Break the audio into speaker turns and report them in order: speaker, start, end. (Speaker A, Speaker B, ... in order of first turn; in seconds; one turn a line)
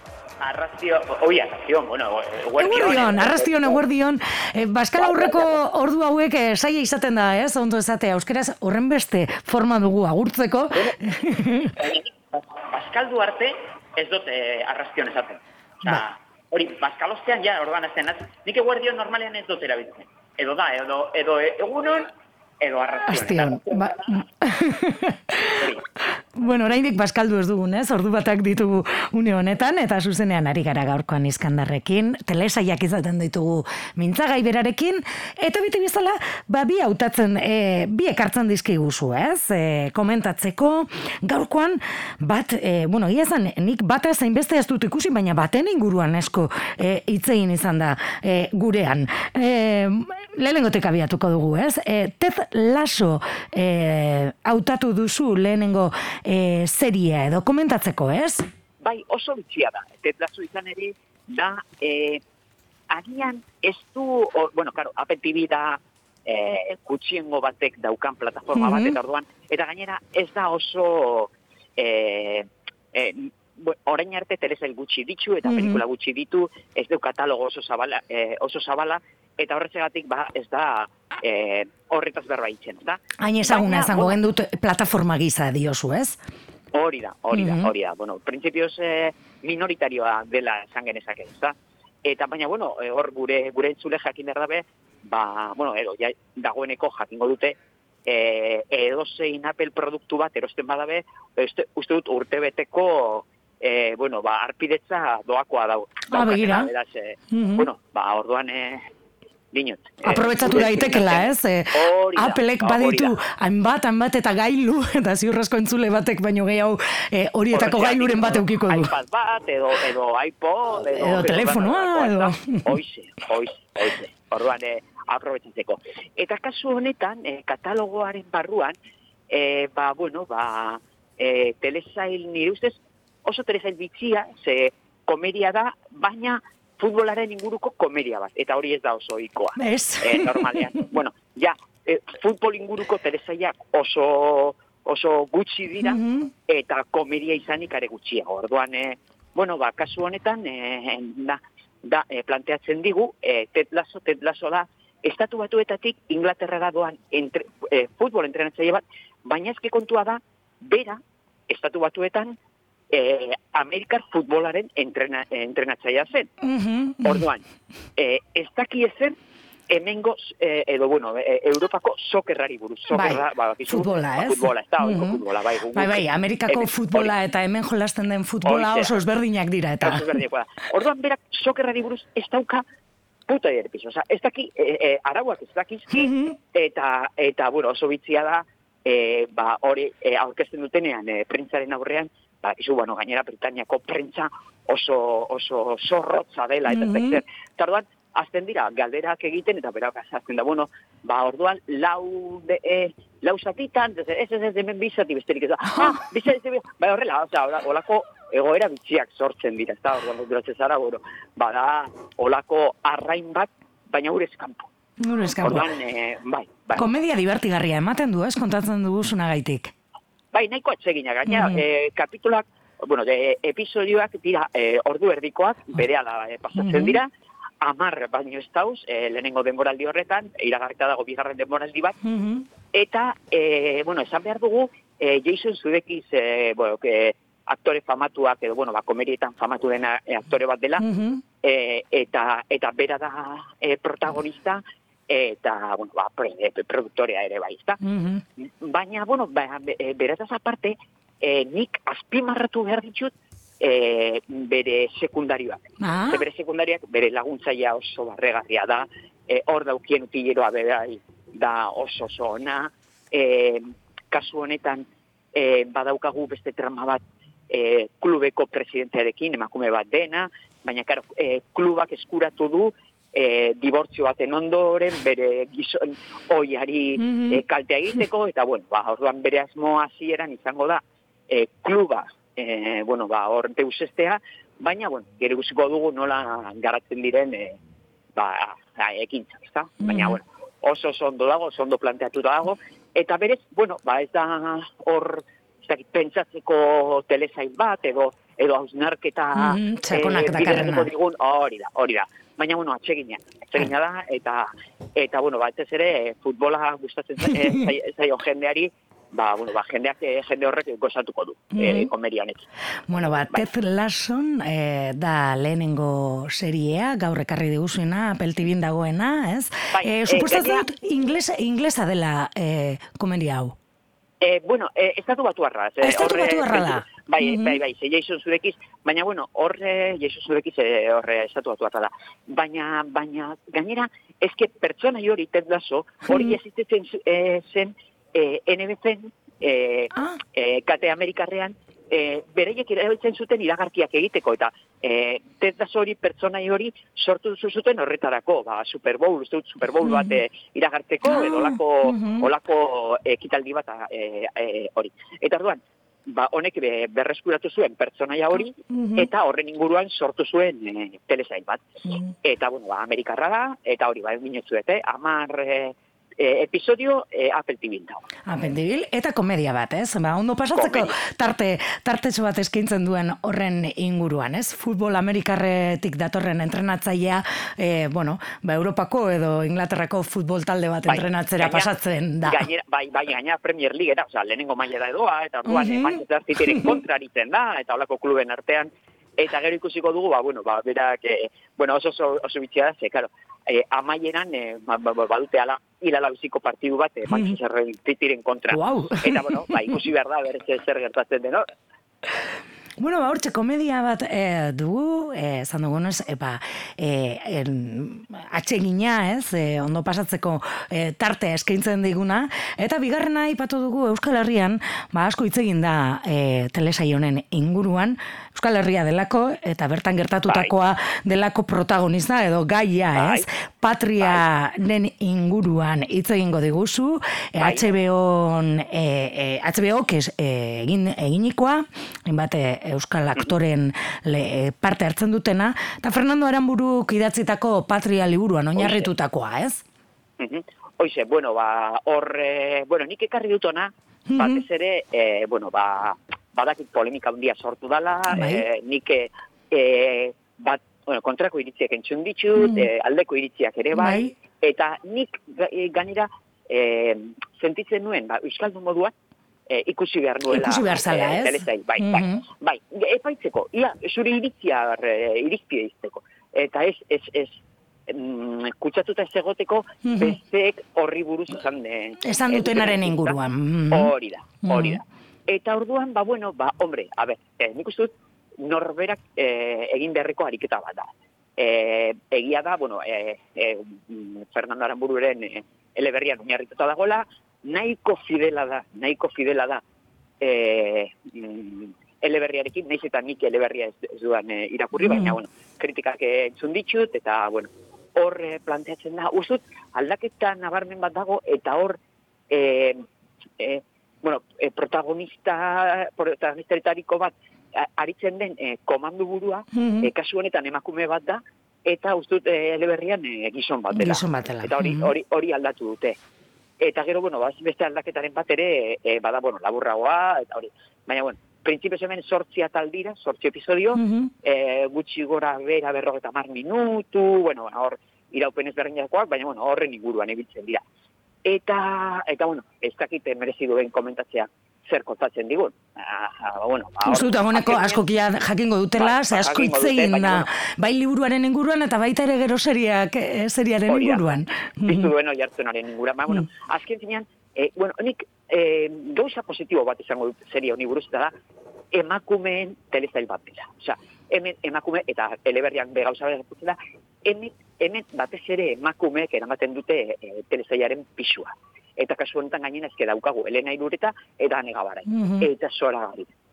Speaker A: 0.4-3.8
Speaker B: 2.6-11.8
Speaker A: 5.0-5.6
Speaker A: 11.7-22.1
Speaker A: 22.6-24.2
Speaker B: 23.1-25.7
Speaker A: 25.6-25.8
Speaker B: 26.3-58.5
Speaker A: 58.8-62.2
Speaker A: 62.9-84.2
Speaker B: 68.5-68.9
Speaker B: 75.4-75.8
Speaker B: 83.2-86.2
Speaker A: 86.7-91.5
Speaker B: 87.3-87.7
Speaker A: 92.0-108.8
Speaker B: 106.1-106.7
Speaker B: 107.3-107.7
Speaker A: 109.5-113.1
Speaker B: 110.0-118.9
Speaker A: 117.5-128.7
Speaker B: 120.8-122.8
Speaker A: 129.3-162.3
Speaker B: 139.6-140.8
Speaker B: 145.8-146.3
Speaker A: 162.9-166.3
Speaker B: 166.4-167.2
Speaker A: 167.0-167.4
Speaker A: 168.0-169.1
Speaker A: 169.7-177.1
Speaker B: 172.9-175.2
Speaker B: 175.7-180.1
Speaker A: 178.4-178.9
Speaker A: 179.8-182.6
Speaker A: 183.3-214.7
Speaker B: 185.9-186.4
Speaker B: 196.7-197.2
Speaker B: 205.7-206.0
Speaker B: 215.0-215.7
Speaker A: 215.4-216.9
Speaker B: 216.7-219.7
Speaker A: 220.3-227.1
Speaker B: 221.2-221.6
Speaker B: 226.6-227.0
Speaker A: 227.6-232.0
Speaker B: 232.0-232.4
Speaker A: 232.7-240.8
Speaker B: 240.8-241.2
Speaker A: 241.4-247.8
Speaker B: 247.8-248.2
Speaker A: 248.4-287.6
Speaker B: 255.8-256.2
Speaker B: 277.0-277.4
Speaker A: 288.1-312.4
Speaker B: 289.8-290.2
Speaker B: 299.3-300.9
Speaker B: 311.5-311.9
Speaker B: 312.9-323.5
Speaker A: 319.7-320.6
Speaker A: 324.2-368.0
Speaker B: 325.8-327.6
Speaker B: 336.1-336.4
Speaker B: 349.8-350.1
Speaker B: 351.1-352.3
Speaker B: 358.7-359.1
Speaker B: 368.2-382.4
Speaker A: 370.5-370.9
Speaker A: 380.9-381.7
Speaker A: 382.2-401.4
Speaker B: 385.5-386.8
Speaker B: 397.1-397.3
Speaker B: 398.5-399.8
Speaker B: 402.8-439.6
Speaker A: 420.3-420.5
Speaker A: 422.9-423.2
Speaker A: 427.4-427.7
Speaker A: 438.6-438.9
Speaker A: 440.2-458.9
Speaker B: 444.1-444.4
Speaker B: 448.1-448.4
Speaker B: 452.4-452.7
Speaker B: 453.7-454.1
Speaker A: 459.5-473.2
Speaker B: 460.3-462.2
Speaker B: 469.8-470.2
Speaker B: 472.0-473.9
Speaker A: 473.7-477.9
Speaker B: 474.4-474.8
Speaker A: 478.4-489.6
Speaker A: 490.2-501.8
Speaker B: 494.8-495.1
Speaker A: 502.3-502.8
Speaker A: 503.4-516.0
Speaker B: 509.5-509.9
Speaker B: 513.7-514.9
Speaker A: 516.6-530.6
Speaker B: 523.7-524.1
Speaker A: 531.2-537.8
Speaker B: 536.8-544.9
Speaker A: 538.8-540.3
Speaker A: 543.7-544.0
Speaker A: 544.6-551.1
Speaker A: 551.7-566.1
Speaker B: 564.9-565.3